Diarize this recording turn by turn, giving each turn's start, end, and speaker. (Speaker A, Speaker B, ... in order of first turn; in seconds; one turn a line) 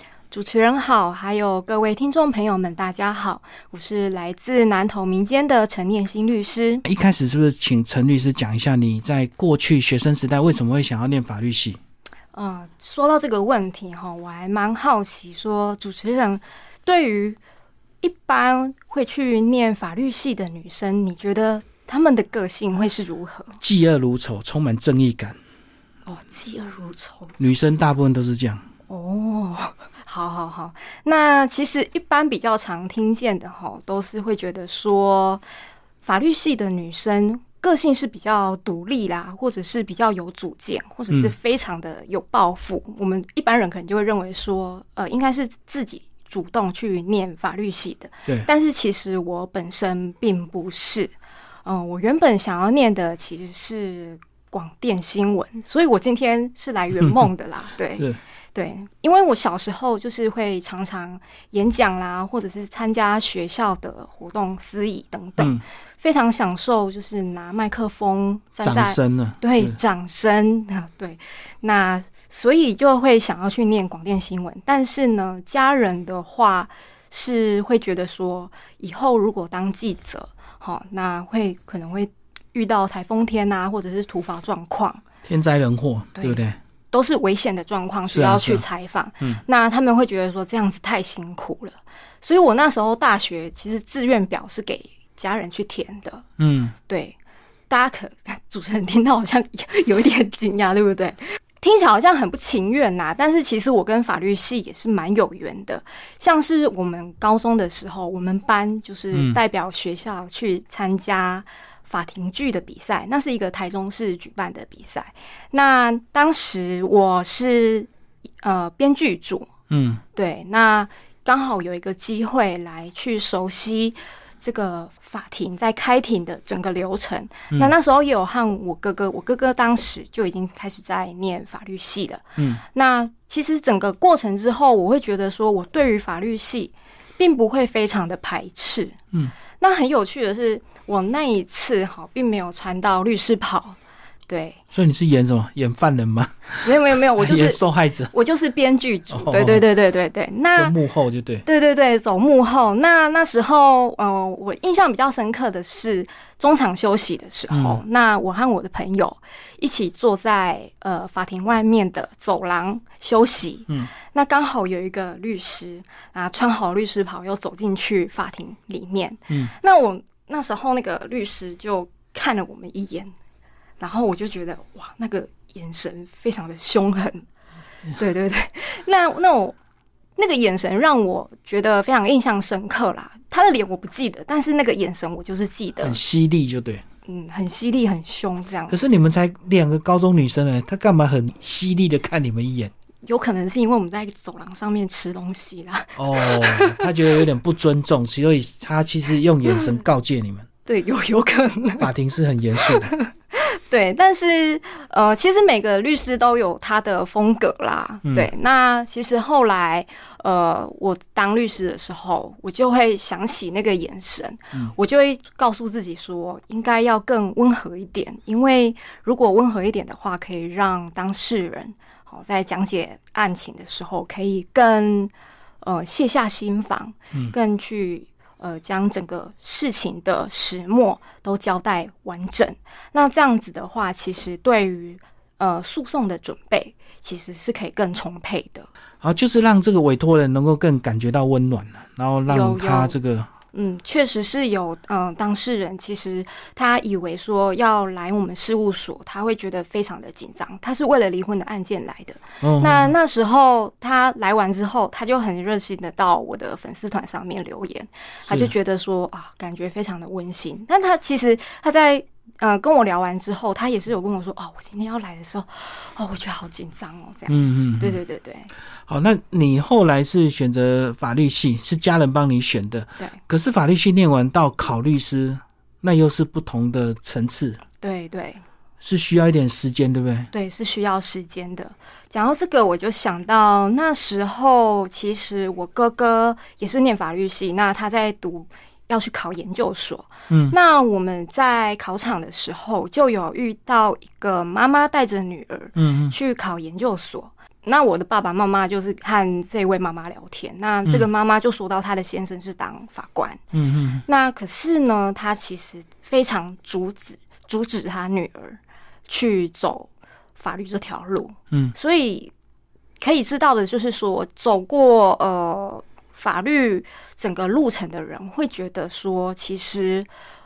Speaker A: 0.3-6.9
Speaker B: 6.9-11.8
Speaker A: 12.3-17.4
Speaker A: 18.0-23.6
Speaker B: 23.6-25.4
Speaker A: 26.1-27.4
Speaker B: 27.4-28.6
Speaker A: 28.9-35.4
Speaker A: 36.0-51.1
Speaker A: 51.6-85.0
Speaker B: 65.4-65.6
Speaker B: 68.6-69.8
Speaker B: 85.2-86.6
Speaker A: 86.9-96.3
Speaker B: 88.1-88.6
Speaker B: 96.4-96.8
Speaker A: 96.9-97.2
Speaker A: 97.7-117.9
Speaker B: 109.1-109.4
Speaker A: 118.4-119.5
Speaker B: 119.7-120.0
Speaker A: 120.2-139.0
Speaker A: 139.6-144.6
Speaker B: 144.7-148.1
Speaker A: 146.6-147.6
Speaker A: 148.1-150.8
Speaker B: 149.1-149.7
Speaker B: 150.5-151.4
Speaker A: 151.4-173.1
Speaker B: 157.5-157.8
Speaker A: 173.8-177.2
Speaker A: 177.9-179.6
Speaker A: 180.2-186.0
Speaker B: 185.8-186.8
Speaker A: 187.1-188.8
Speaker B: 188.7-192.7
Speaker A: 193.0-197.2
Speaker B: 196.0-200.5
Speaker A: 200.7-201.9
Speaker B: 201.8-202.9
Speaker A: 202.6-238.7
Speaker B: 208.1-208.3
Speaker B: 239.0-243.3
Speaker A: 242.3-242.9
Speaker A: 243.5-268.5
Speaker B: 252.4-252.9
Speaker B: 258.3-258.5
Speaker B: 267.3-268.0
Speaker B: 268.9-277.6
Speaker A: 277.8-278.4
Speaker B: 278.8-280.3
Speaker A: 280.3-303.4
Speaker B: 290.3-290.6
Speaker B: 295.8-296.1
Speaker B: 303.5-304.1
Speaker A: 304.1-312.3
Speaker A: 313.0-320.1